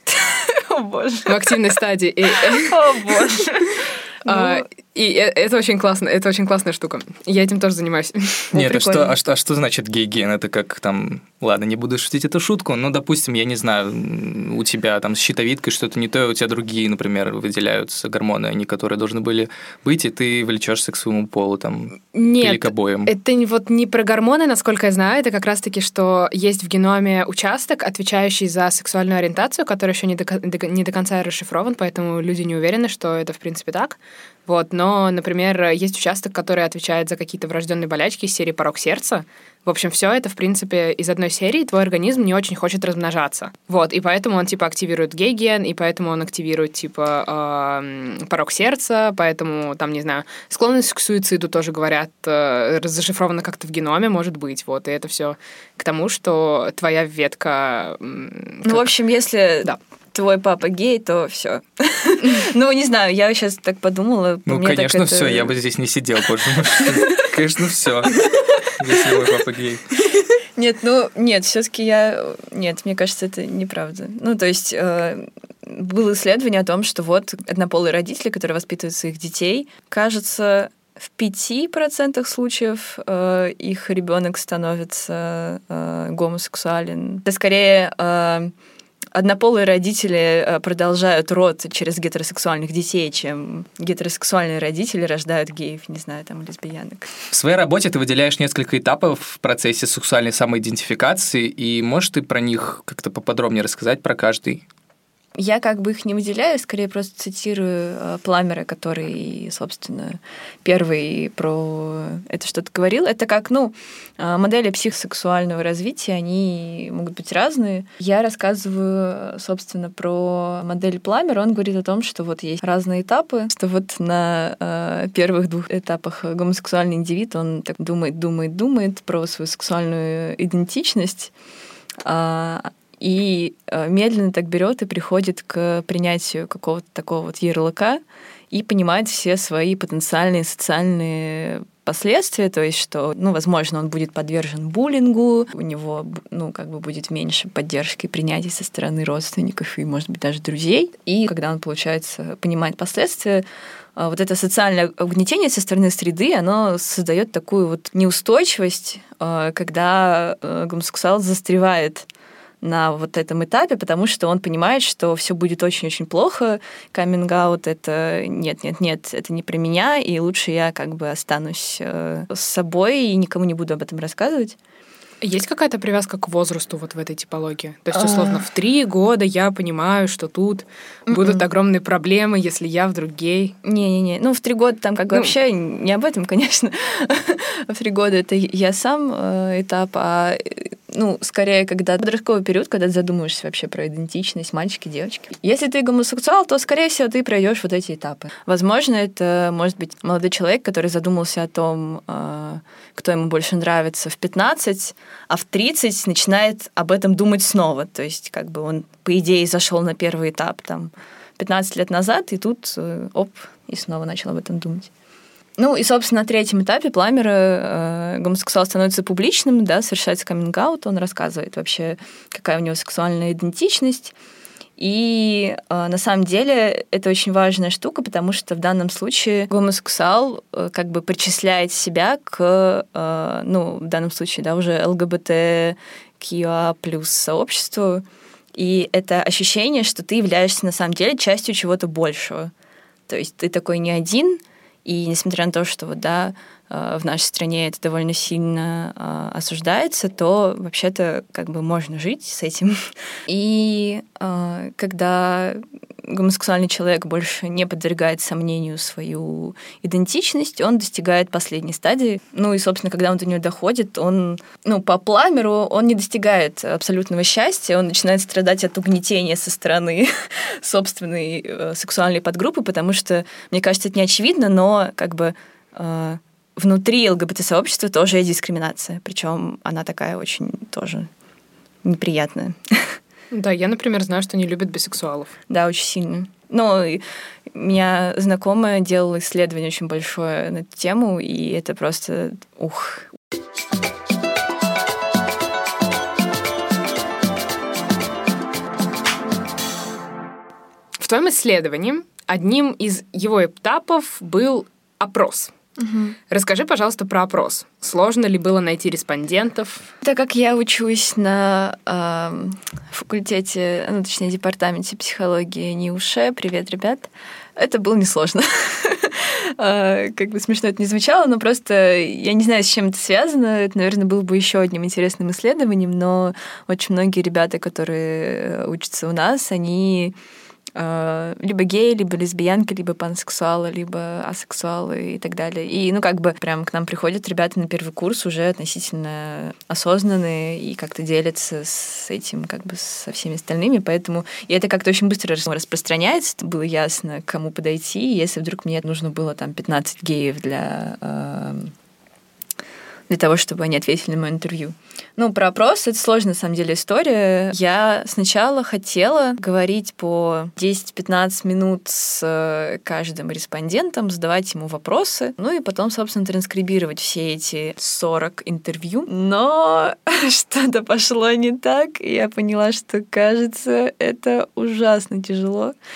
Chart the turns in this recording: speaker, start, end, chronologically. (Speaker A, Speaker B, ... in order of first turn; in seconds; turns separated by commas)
Speaker A: 0.2-1.6, Speaker B: 1.3-3.4, Speaker A: 2.4-4.7, Speaker B: 4.2-8.5, Speaker A: 8.5-9.2, Speaker C: 8.5-23.1, Speaker B: 22.1-58.9, Speaker A: 58.6-65.5, Speaker C: 64.5-69.9, Speaker A: 66.8-67.3, Speaker A: 68.2-69.0, Speaker A: 70.2-88.5, Speaker A: 89.2-97.1, Speaker C: 97.3-104.7, Speaker A: 105.4-131.3, Speaker A: 132.0-153.4, Speaker A: 154.0-162.1, Speaker A: 162.6-174.6, Speaker B: 175.2-183.6, Speaker A: 177.9-178.4, Speaker A: 181.1-181.4, Speaker A: 183.6-214.9, Speaker A: 215.6-224.1, Speaker A: 224.8-238.0, Speaker A: 238.6-242.5, Speaker A: 243.1-281.1, Speaker A: 281.9-283.0, Speaker B: 283.3-285.3, Speaker A: 285.5-287.0, Speaker A: 287.5-293.1, Speaker B: 301.0-305.5, Speaker A: 305.8-306.2, Speaker B: 306.3-309.9, Speaker A: 310.0-330.2, Speaker A: 330.8-351.7, Speaker A: 353.1-375.8